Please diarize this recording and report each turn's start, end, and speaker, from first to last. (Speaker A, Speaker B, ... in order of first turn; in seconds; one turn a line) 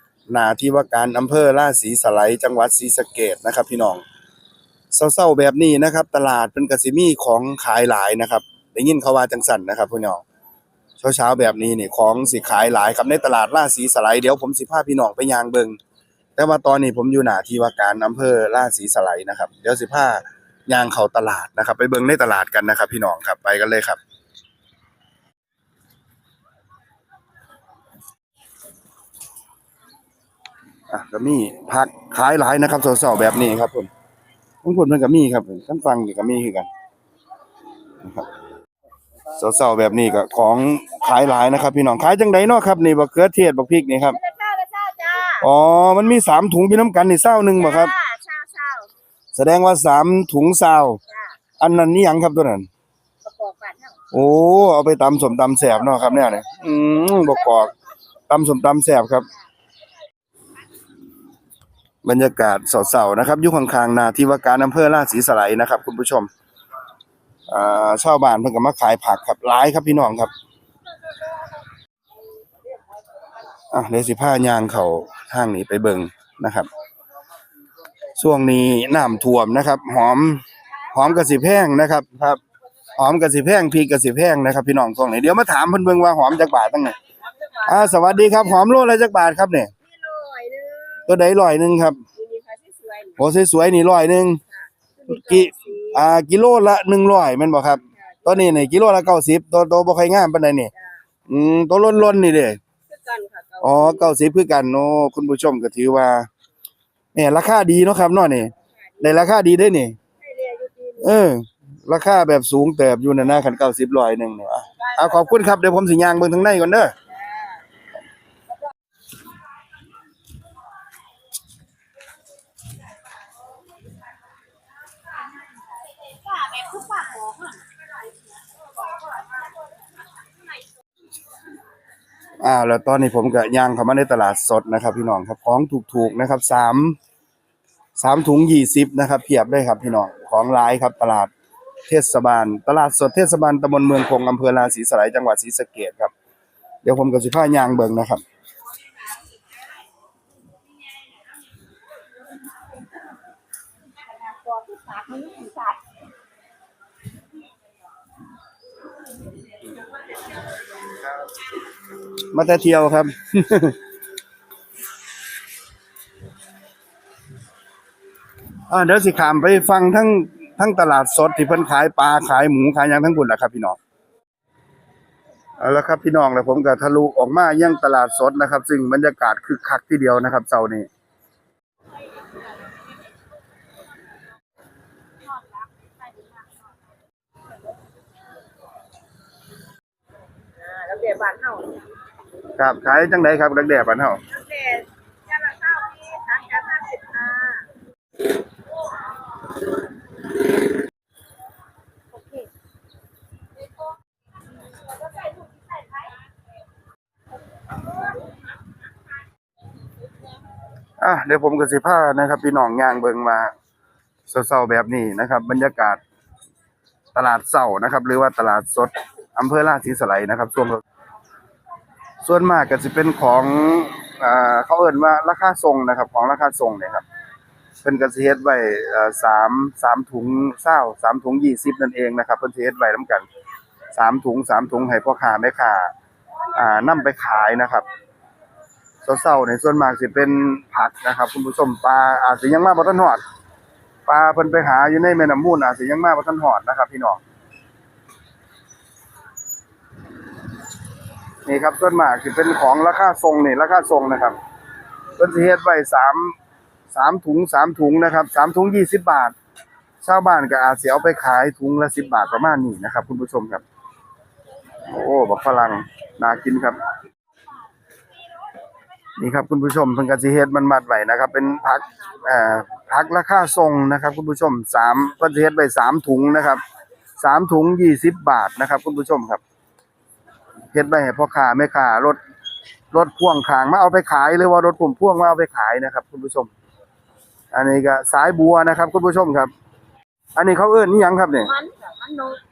Speaker A: 0.3-4.0
Speaker A: 4.9-10.2
Speaker A: 11.0-15.8
Speaker A: 16.4-24.0
Speaker A: 30.9-33.9
Speaker A: 34.6-36.7
Speaker A: 39.3-44.2
Speaker B: 44.1-45.5
Speaker A: 45.4-47.9
Speaker B: 47.6-48.9
Speaker A: 49.3-51.0
Speaker A: 51.6-52.7
Speaker B: 53.2-54.0
Speaker A: 54.1-57.7
Speaker A: 58.3-59.3
Speaker A: 62.0-66.3
Speaker A: 67.5-70.3
Speaker A: 73.7-76.7
Speaker A: 78.2-82.4
Speaker A: 83.0-87.0
Speaker B: 87.4-88.4
Speaker A: 87.7-89.7
Speaker B: 89.8-91.2
Speaker A: 91.0-92.0
Speaker B: 92.1-93.2
Speaker A: 93.2-94.4
Speaker B: 94.5-96.0
Speaker A: 95.1-100.7
Speaker B: 98.1-98.5
Speaker A: 101.3-102.6
Speaker B: 102.9-104.1
Speaker A: 103.6-106.3
Speaker A: 107.1-110.0
Speaker B: 108.9-109.2
Speaker B: 110.2-111.1
Speaker A: 111.0-116.9
Speaker B: 114.8-115.5
Speaker B: 126.3-127.5
Speaker A: 132.4-137.0
Speaker A: 137.9-141.3
Speaker A: 141.9-146.1
Speaker A: 146.8-148.2
Speaker B: 154.2-155.8
Speaker A: 162.3-163.8
Speaker A: 168.7-173.8
Speaker A: 175.6-180.9
Speaker B: 190.6-191.8
Speaker A: 192.6-194.2
Speaker B: 194.3-197.7
Speaker A: 211.0-213.5
Speaker A: 214.3-216.0
Speaker A: 217.1-220.8
Speaker A: 222.2-227.0
Speaker A: 227.8-233.2
Speaker A: 233.9-235.9
Speaker A: 236.5-237.8
Speaker A: 239.0-243.2
Speaker A: 244.1-247.2
Speaker A: 251.4-254.3
Speaker A: 255.2-256.4
Speaker A: 256.9-259.3
Speaker A: 260.0-263.6
Speaker A: 264.8-266.8
Speaker A: 269.1-276.6
Speaker A: 277.2-279.4
Speaker A: 280.7-282.2
Speaker A: 282.9-286.5
Speaker A: 287.5-289.5
Speaker A: 290.4-291.5
Speaker B: 291.4-292.4